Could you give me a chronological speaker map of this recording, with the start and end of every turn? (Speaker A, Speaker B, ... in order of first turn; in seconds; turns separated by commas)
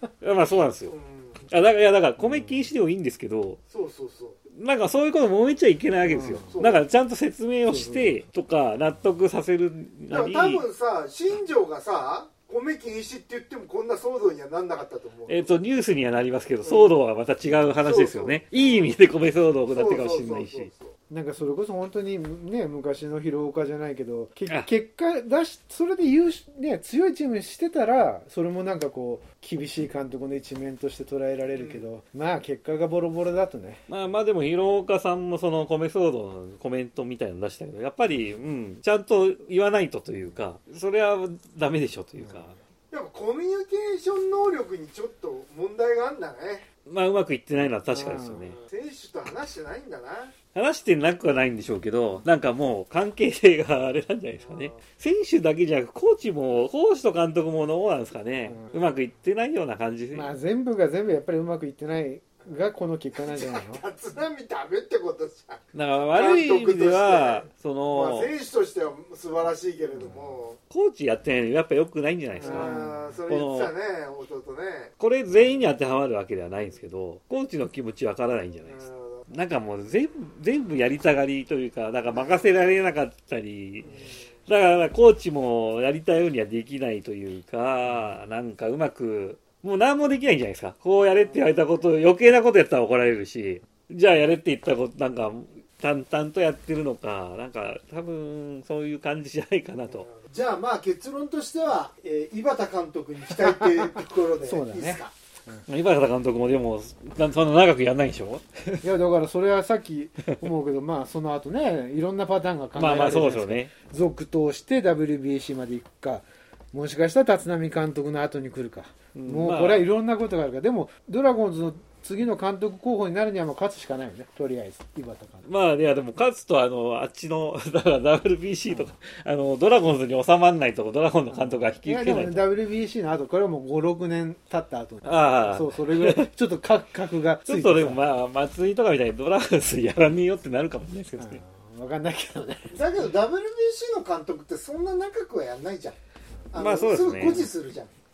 Speaker A: 0.2-0.9, Speaker B: 0.8-1.4, Speaker A: 1.5-3.6, Speaker B: 3.7-4.4, Speaker A: 4.5-10.6, Speaker C: 6.0-6.6, Speaker B: 6.5-6.8, Speaker C: 7.7-8.1, Speaker B: 10.1-15.5, Speaker A: 15.3-20.7, Speaker B: 16.6-17.0, Speaker B: 17.8-19.0, Speaker B: 19.7-20.9, Speaker C: 21.1-33.8, Speaker B: 31.5-31.8, Speaker A: 33.9-42.5, Speaker C: 42.2-42.5, Speaker B: 42.9-46.7, Speaker A: 46.9-48.6, Speaker C: 47.9-48.5, Speaker B: 48.6-50.4, Speaker A: 50.5-60.3, Speaker B: 54.5-54.8, Speaker C: 60.1-63.8, Speaker B: 63.2-70.6, Speaker A: 65.7-68.3, Speaker C: 70.0-70.4, Speaker A: 70.7-73.7, Speaker C: 72.4-73.0, Speaker B: 72.4-74.9, Speaker A: 75.0-83.9, Speaker B: 78.6-79.2, Speaker B: 82.1-82.5, Speaker A: 84.5-100.1, Speaker B: 99.9-105.1, Speaker C: 104.4-105.6, Speaker A: 105.7-108.8, Speaker C: 108.8-125.4, Speaker A: 112.7-113.7, Speaker A: 119.1-119.9, Speaker A: 125.5-132.4, Speaker C: 131.3-138.0, Speaker A: 135.0-136.3, Speaker A: 137.4-141.4, Speaker C: 141.2-142.8, Speaker B: 142.7-146.0, Speaker B: 146.5-147.9, Speaker A: 146.6-147.5